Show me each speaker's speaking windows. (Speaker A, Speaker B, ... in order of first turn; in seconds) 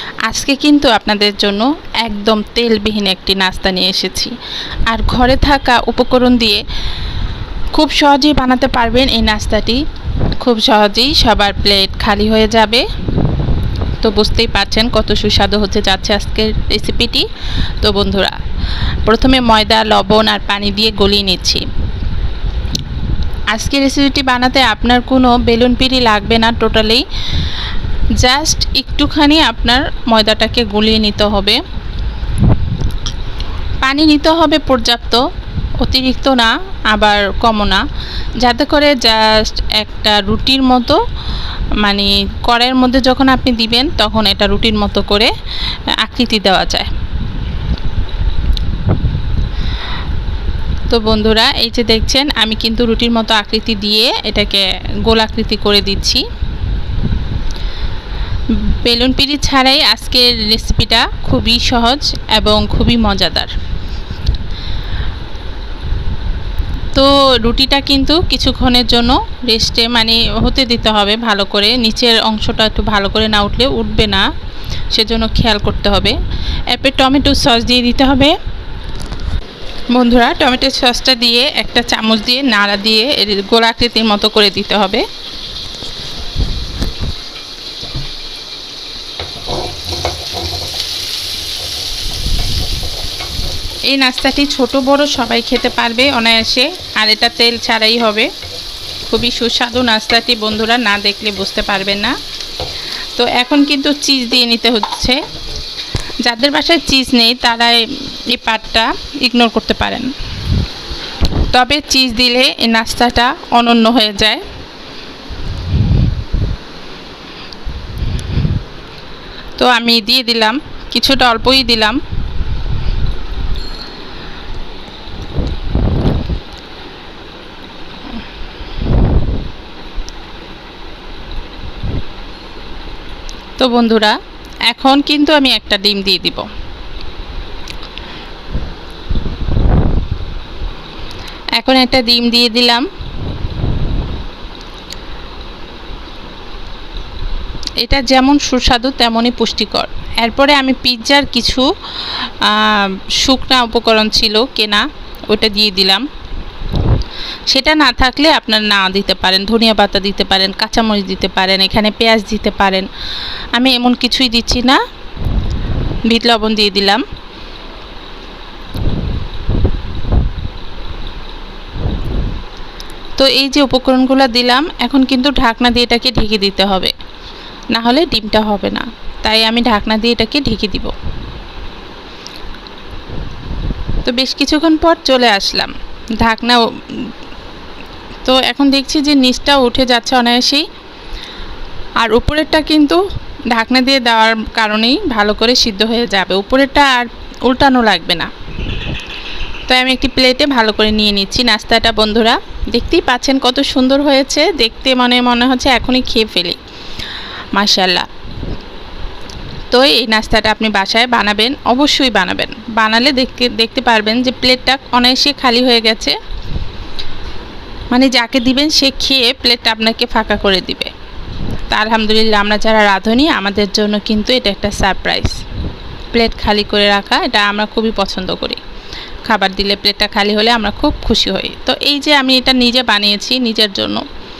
Speaker A: 0.2-4.3, 4.9-6.6, 7.7-9.8, 10.4-12.8, 14.0-17.3, 17.8-18.4, 19.0-21.6, 23.5-27.0, 28.2-31.6, 33.8-35.2, 35.8-37.8, 38.4-41.0, 41.8-45.3, 46.0-46.9, 50.9-56.2, 58.7-63.5, 66.9-74.2, 74.9-76.2, 76.7-78.3, 79.9-85.0, 93.9-98.3, 99.1-102.2, 103.1-105.2, 106.2-110.1, 111.5-114.4, 119.6-122.0, 133.6-134.2, 134.7-136.5, 141.6-142.8, 147.8-156.0, 157.5-162.9, 163.5-164.8, 166.1-167.0, 173.2-176.9, 177.7-180.9, 184.0-187.1, 188.2-190.7, 192.0-193.0, 193.5-198.3, 199.7-206.6, 207.5-208.1, 209.7-216.2, 217.9-220.9, 221.7-225.4, 226.1-228.6, 229.2-234.0